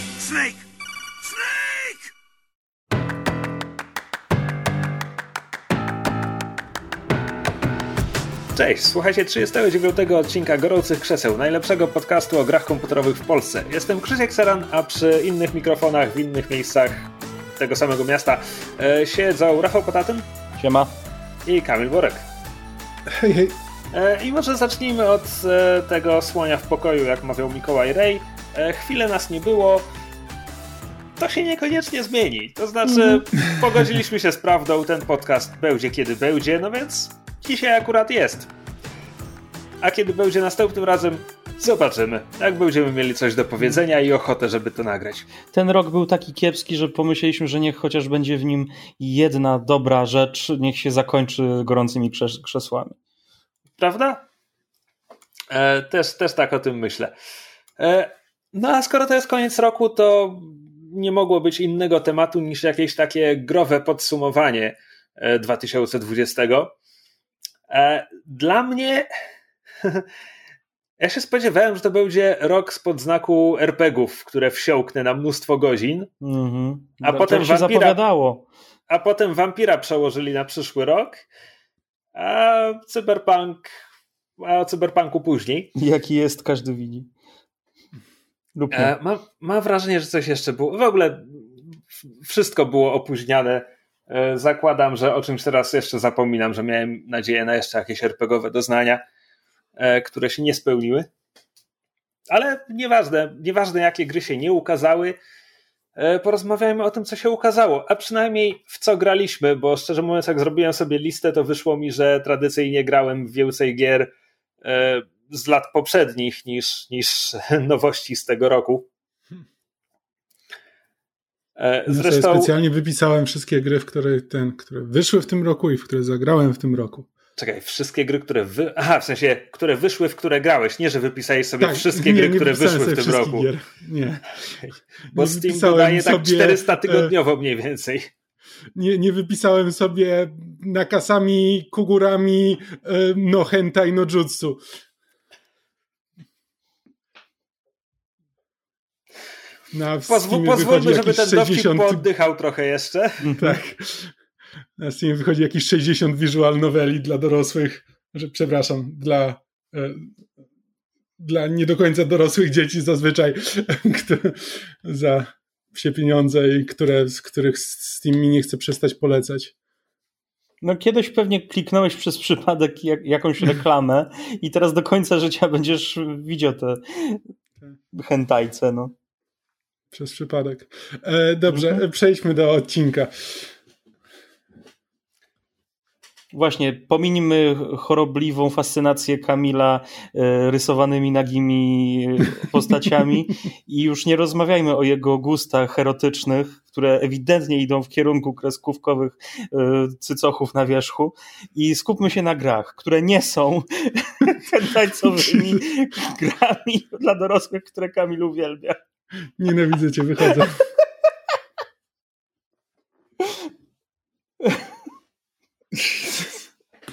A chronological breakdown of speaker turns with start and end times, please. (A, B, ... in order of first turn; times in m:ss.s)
0:00.2-0:00.6 A
0:01.3-0:02.0 A
0:08.6-0:20.3 A
0:20.6-0:20.9 B
0:21.5-0:22.2 A
0:23.1-0:23.6 C
0:23.9-0:29.9 A
0:31.2-0:38.5 A
0:39.8-0:45.3 A
0:45.5-0:53.0 B
0:53.8-0:54.2 A
0:55.5-0:57.1 A
0:57.8-1:06.7 A
1:07.7-1:09.1 A
1:11.0-1:16.1 A
1:16.2-1:18.5 B
1:17.0-1:18.0 A
1:18.9-1:21.2 A
1:22.2-1:23.7 A
1:24.4-1:25.7 A
1:25.8-1:27.1 B
1:28.6-1:28.9 B
1:28.7-1:39.0 A
1:39.8-1:41.1 A
1:42.3-1:45.2 A
1:46.0-1:54.1 A
1:54.6-1:58.9 A
2:01.6-2:02.5 A
2:01.9-2:07.1 C
2:07.4-2:13.5 A
2:11.6-2:14.6 C
2:15.1-2:18.1 A
2:15.1-2:17.1 C
2:18.8-2:24.6 C
2:29.7-2:32.0 C
2:30.1-2:33.3 A
2:33.2-2:33.6 B
2:33.4-2:34.2 C
2:34.8-2:40.1 C
2:41.2-2:49.5 C
2:50.6-2:57.2 B
2:57.9-2:58.9 B
2:59.9-3:03.5 C
3:01.5-3:01.8 B
3:06.3-3:28.8 B
3:25.2-3:25.6 C
3:29.4-3:30.7 C
3:35.7-3:36.4 C